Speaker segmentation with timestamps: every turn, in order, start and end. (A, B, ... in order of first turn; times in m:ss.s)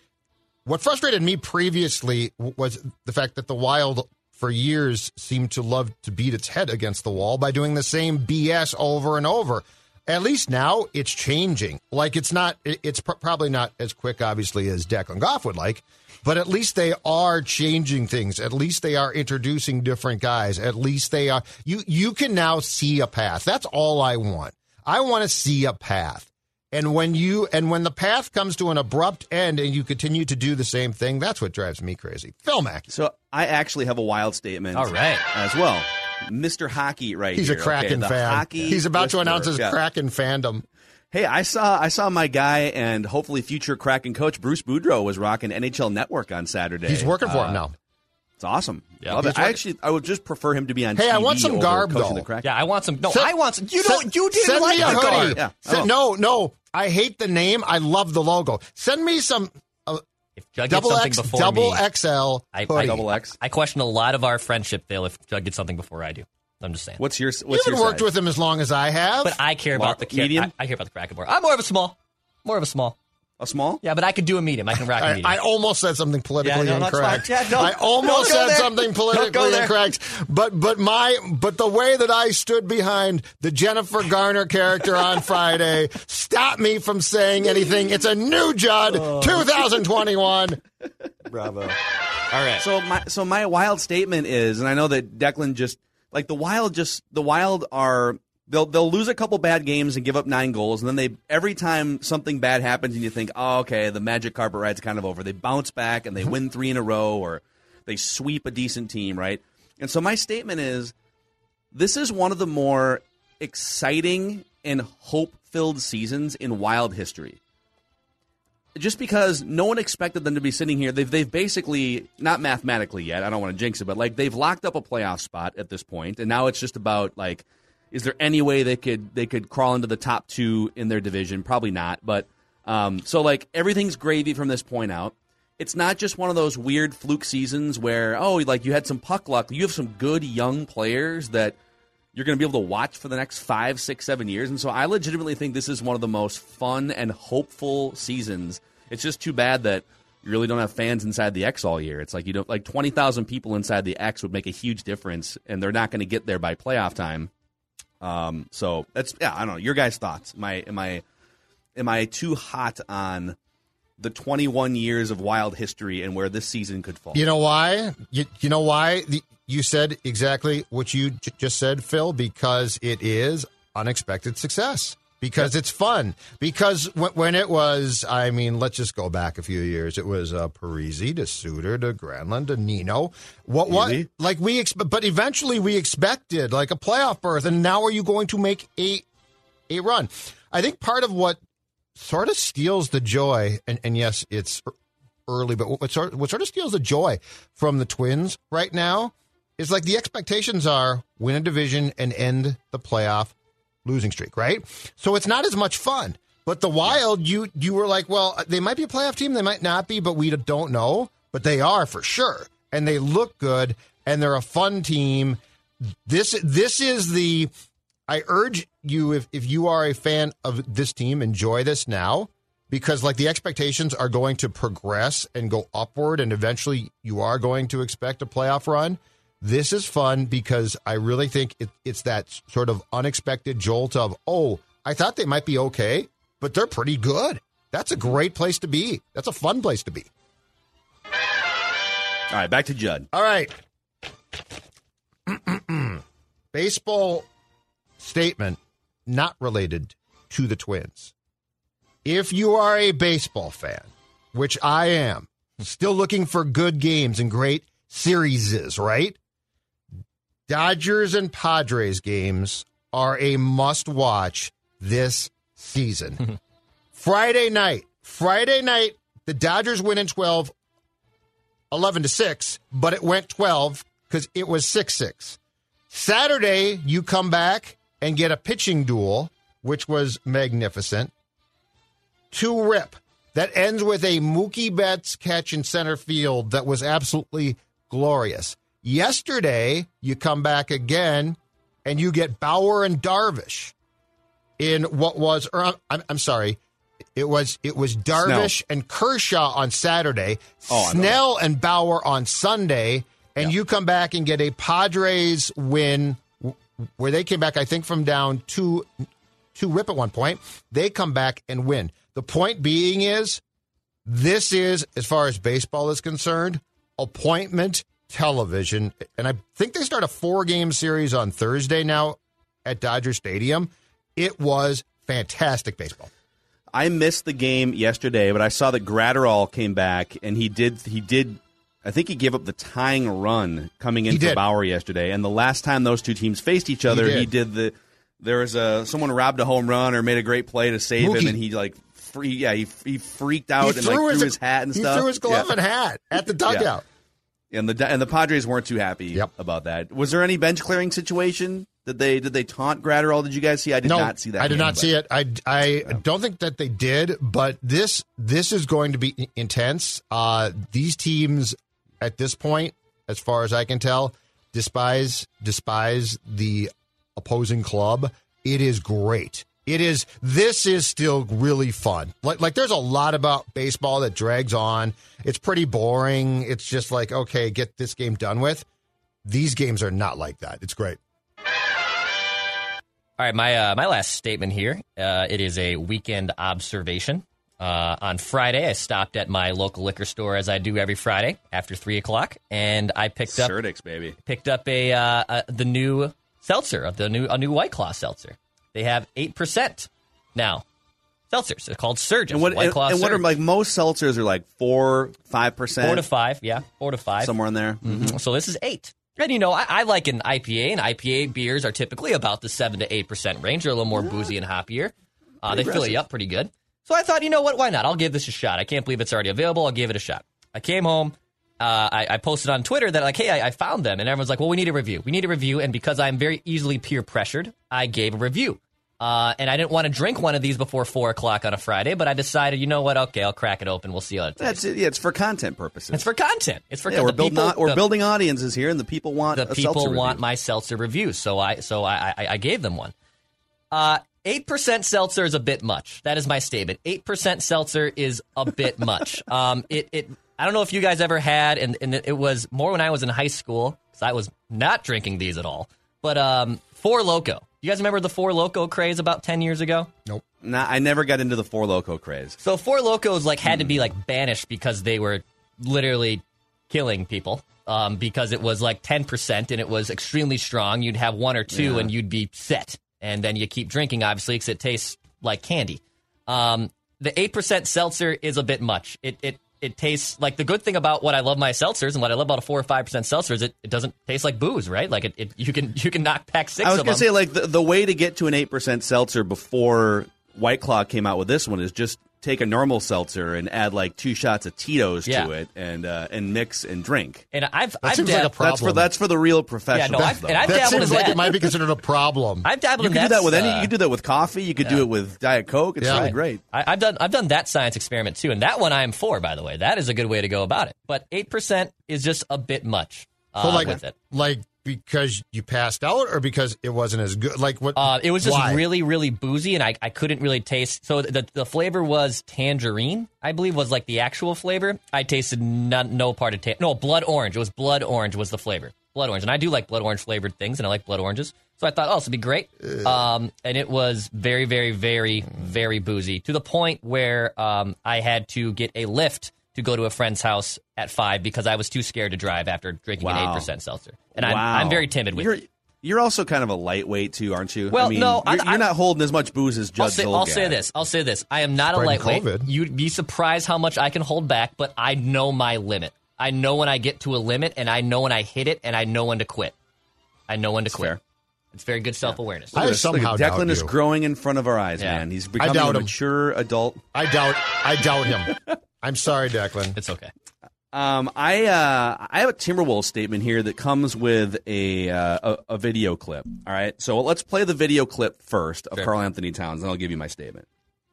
0:00.6-0:32.9 A
0:32.9-0:39.8 B
0:34.7-0:35.2 C
0:37.4-0:40.6 A
0:41.1-0:47.1 B
0:46.9-0:47.7 A
0:47.2-0:47.6 C
0:48.4-0:52.5 B
0:49.0-0:49.6 C
0:51.0-0:52.2 A
0:52.4-0:55.4 C
0:53.1-1:00.0 A
0:54.7-0:55.9 B
1:00.4-1:01.8 C
1:00.7-1:03.0 A
1:02.5-1:07.0 C
1:02.7-1:03.4 B
1:07.0-1:08.1 B
1:07.5-1:09.4 A
1:09.2-1:13.0 C
1:09.7-1:10.5 B
1:13.4-1:13.8 B
1:13.8-1:15.4 C
1:15.0-1:30.6 A
1:16.4-1:19.7 C
1:28.9-1:29.4 C
1:31.3-1:31.6 C
1:32.3-1:32.6 C
1:32.6-1:50.9 B
1:51.7-1:57.4 B
1:58.8-2:21.6 B
2:22.1-2:37.3 B
2:38.0-2:41.0 B
2:41.8-2:43.4 B
2:44.0-2:47.2 B
2:47.1-3:09.0 A
3:03.7-3:04.1 B
3:09.7-3:11.4 A
3:12.0-3:14.7 A
3:15.3-3:23.3 A
3:23.8-3:35.4 A
3:36.0-3:37.5 A
3:38.1-4:00.1 A
4:02.3-4:03.1 B
4:03.1-4:03.5 A
4:05.3-4:07.3 A
4:08.0-4:11.1 A
4:12.0-4:19.2 A
4:20.5-4:26.3 A
4:26.9-4:30.5 A
4:31.7-4:35.4 A
4:35.9-4:41.1 A
4:42.3-4:53.7 A
4:54.6-4:56.6 A
4:57.2-5:09.0 A
4:58.2-4:58.5 B
5:00.7-5:01.2 B
5:09.5-5:13.4 A
5:14.0-5:26.1 A
5:26.7-5:45.5 B
5:34.1-5:34.4 A
5:36.9-5:37.3 A
5:41.0-5:41.4 A
5:43.6-5:46.8 A
5:47.5-5:55.0 B
5:53.8-6:18.6 A
6:19.2-6:21.0 A
6:23.2-6:33.5 C
6:33.3-6:34.2 B
6:34.2-6:40.6 C
6:41.3-6:43.2 C
6:42.3-6:46.0 B
6:45.8-6:47.3 C
6:47.2-6:48.2 B
6:47.8-7:14.6 C
6:53.9-6:54.3 B
6:55.4-6:56.0 B
7:14.4-7:16.1 B
7:15.9-7:17.8 C
7:16.9-7:20.2 B
7:19.3-7:22.9 C
7:23.7-7:39.9 C
7:40.4-7:42.4 B
7:42.4-8:07.0 C
7:43.5-7:43.7 B
7:51.5-7:51.9 B
8:06.6-8:17.2 B
8:17.3-8:18.4 C
8:17.8-8:18.9 A
8:18.4-8:21.1 B
8:19.7-8:21.5 C
8:20.4-8:22.5 A
8:22.4-8:23.7 C
8:22.8-8:26.4 B
8:25.8-8:26.1 A
8:25.9-8:33.9 C
8:33.4-8:38.6 A
8:33.5-8:33.8 B
8:37.8-9:05.4 C
9:03.0-9:03.5 B
9:04.2-9:10.6 B
9:07.7-9:08.6 C
9:09.8-9:19.5 C
9:11.7-9:12.5 A
9:20.3-9:21.0 C
9:20.7-9:21.0 B
9:21.5-9:22.6 C
9:22.5-9:26.8 B
9:22.5-9:23.7 A
9:25.4-9:25.9 A
9:26.9-9:29.8 A
9:29.8-9:30.1 C
9:30.7-9:40.4 B